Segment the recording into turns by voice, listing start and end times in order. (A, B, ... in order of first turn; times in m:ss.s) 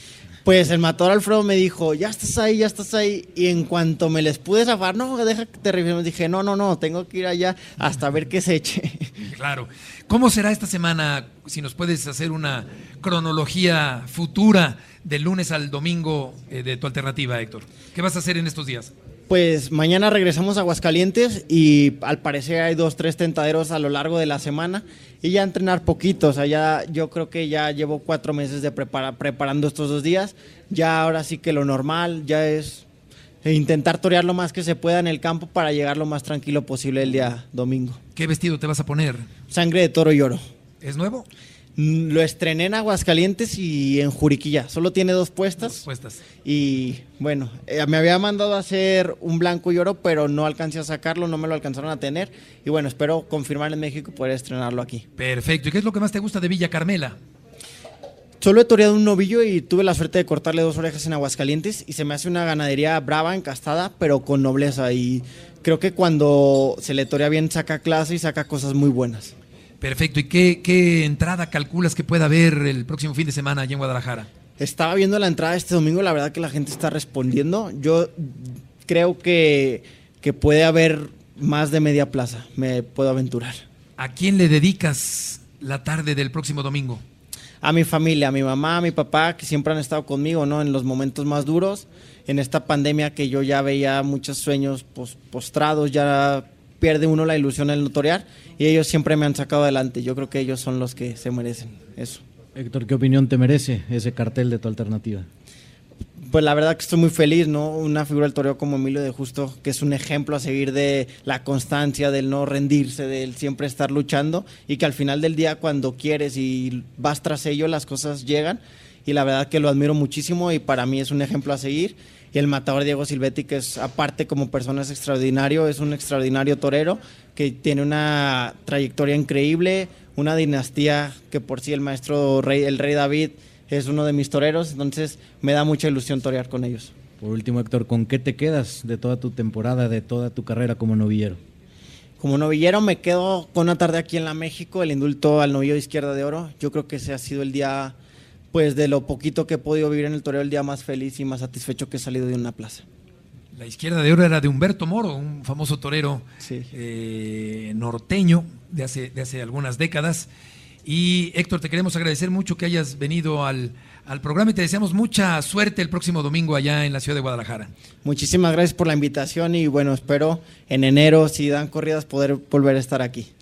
0:00.4-0:09.1 A
0:09.3-0:18.9 B
0:19.3-0:32.8 A
0:33.4-0:38.0 A
0:38.1-0:39.3 B
0:39.5-0:40.4 A
0:40.8-0:41.3 B
0:41.8-0:45.8 A
0:45.8-0:46.2 B
0:46.4-0:55.0 A
0:55.2-0:57.2 B
0:58.4-1:09.3 A
1:09.8-1:14.3 B
1:14.6-1:23.6 A
1:24.0-1:27.0 B
1:27.6-1:42.2 A
1:42.6-1:45.3 C
1:46.3-2:16.9 A
2:17.2-2:21.4 C
2:22.2-2:28.0 A
2:28.5-2:32.8 A
2:33.5-2:40.3 B
2:36.4-2:36.7 A
2:40.8-2:47.7 B
2:48.0-2:53.3 A